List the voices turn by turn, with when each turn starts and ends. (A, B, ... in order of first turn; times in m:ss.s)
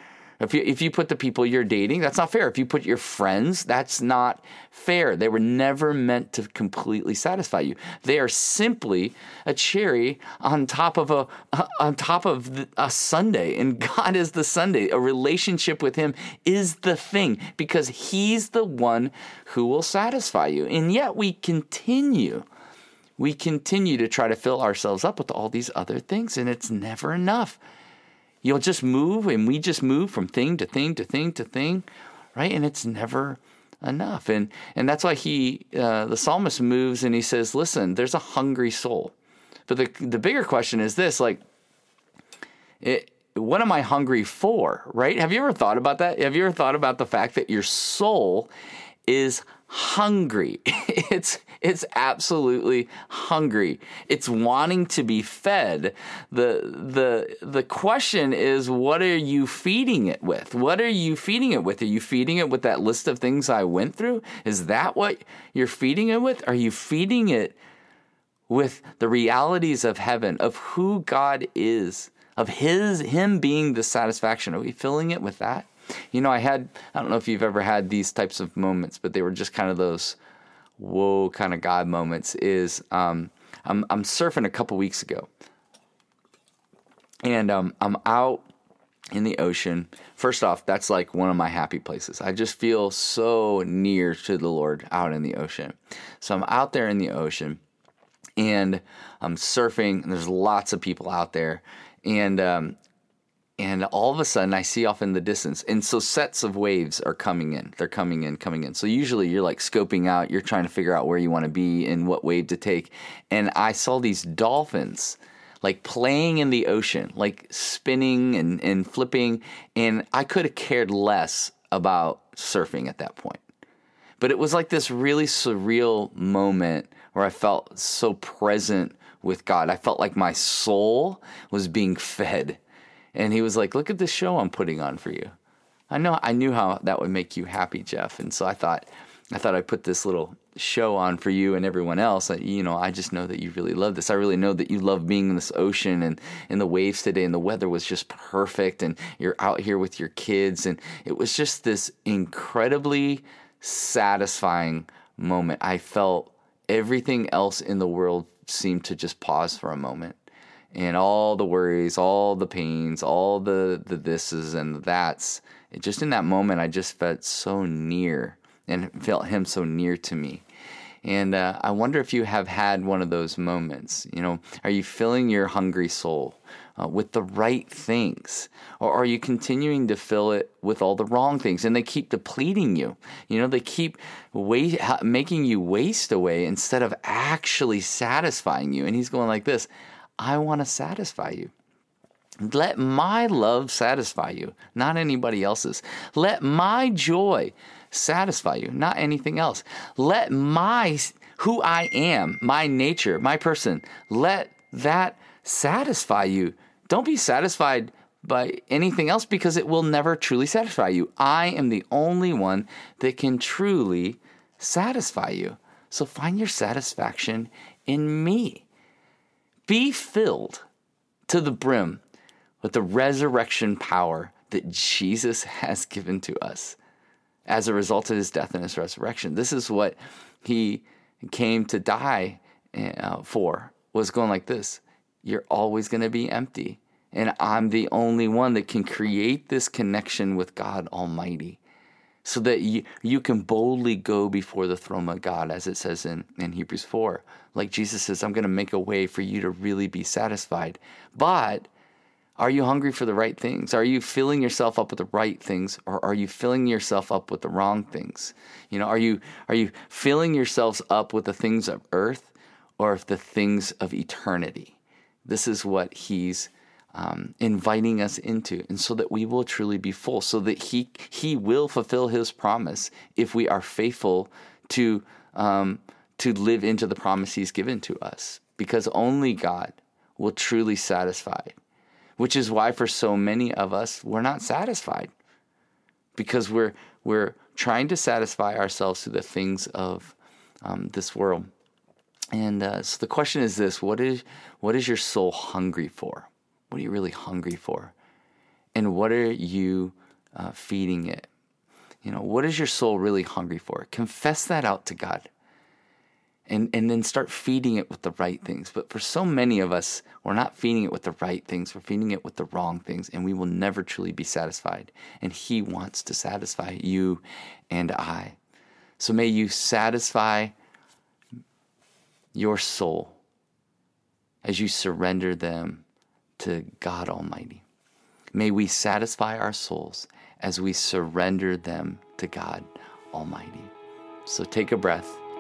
0:00.4-0:22.5 A
0:23.2-0:27.6 A
0:28.4-0:39.1 A
0:39.7-0:41.4 A
0:42.8-0:48.5 A
0:49.1-1:07.6 A
1:08.5-1:20.2 A
1:20.8-1:25.3 A
1:27.2-1:28.5 A
1:29.1-1:37.6 A
1:38.4-1:42.8 A
1:43.6-2:03.4 A
2:04.2-2:12.6 A
2:13.2-2:15.3 A
2:15.9-2:40.2 A
2:40.7-2:50.4 A
2:51.0-3:11.5 A
3:12.4-3:38.7 A
3:39.7-3:40.6 A
3:41.3-3:42.0 A
3:42.6-3:46.8 A
3:47.5-4:01.6 A
4:02.2-4:11.7 A
4:12.4-4:41.6 A
4:42.2-4:45.1 A
4:46.2-4:51.5 A
4:52.3-4:58.0 A
4:58.8-5:01.3 A
5:02.0-5:05.3 A
5:06.5-5:18.4 A
5:19.0-5:20.5 A
5:22.3-5:23.2 A
5:24.4-5:25.8 A
5:26.4-5:27.6 A
5:28.3-5:33.7 A
5:34.3-5:35.2 A